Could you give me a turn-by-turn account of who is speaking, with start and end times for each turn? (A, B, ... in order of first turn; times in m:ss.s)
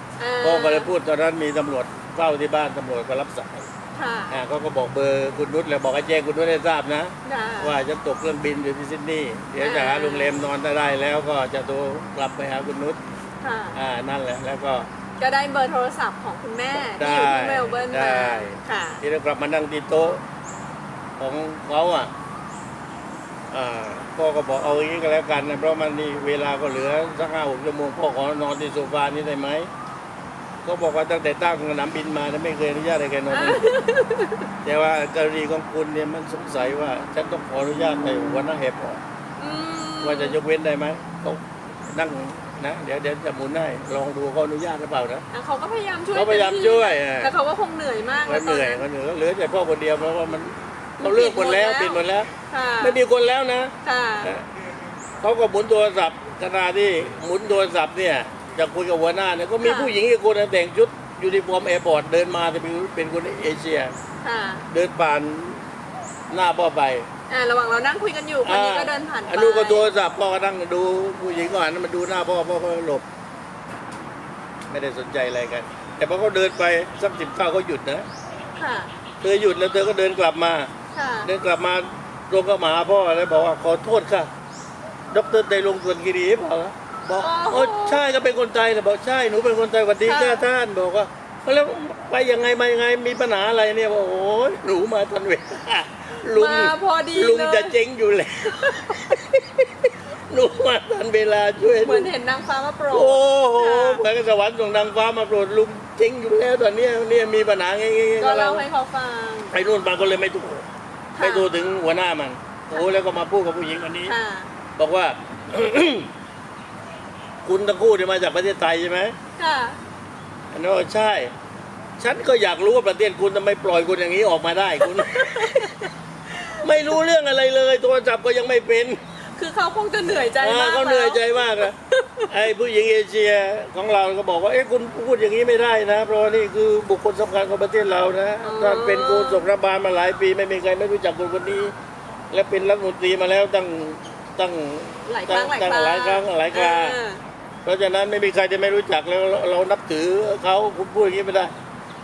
0:00.2-0:00.9 A
0:00.4-0:03.7 B
0:03.9-0:04.4 A
0:04.3-0:13.0 B
0:07.2-0:07.8 A
0:09.6-0:10.5 A
0:13.4-0:13.8 A
0:13.7-0:14.9 B
0:15.2-0:19.0 A
0:16.9-0:20.2 B
0:21.2-0:22.1 B
0:23.5-0:29.7 B
0:30.6-0:33.8 B
0:33.3-0:34.5 A
0:34.6-0:39.0 B
0:39.4-0:40.4 A
0:40.0-0:45.2 B
0:45.3-0:48.8 A
0:46.1-0:47.3 B
0:48.2-0:52.3 B
0:51.0-0:53.0 A
0:52.8-0:54.4 B
0:53.8-0:54.3 A
0:55.2-1:03.9 B
0:59.6-0:59.9 A
1:04.2-1:04.7 A
1:04.7-1:05.6 B
1:06.3-1:07.1 B
1:07.3-1:09.8 A
1:08.4-1:13.0 B
1:14.7-1:18.0 B
1:18.6-1:18.9 A
1:19.2-1:20.7 B
1:20.9-1:21.3 A
1:21.2-1:24.3 B
1:25.1-1:42.1 B
1:27.2-1:28.0 A
1:30.0-1:30.4 A
1:36.3-1:37.7 A
1:38.5-1:39.2 A
1:41.8-1:44.0 A
1:42.9-1:48.6 B
1:48.2-1:49.5 A
1:49.5-1:50.6 B
1:51.2-1:51.5 A
1:51.2-1:54.1 B
1:54.0-1:54.5 A
1:54.8-1:56.1 B
1:57.4-1:59.1 B
1:59.4-1:59.8 A
2:00.5-2:01.3 B
2:02.0-2:05.9 B
2:04.8-2:06.6 A
2:06.5-2:09.0 B
2:09.3-2:12.3 A
2:10.3-2:21.7 B
2:18.4-2:19.5 A
2:22.3-2:27.0 B
2:25.1-2:27.2 A
2:27.6-2:31.5 B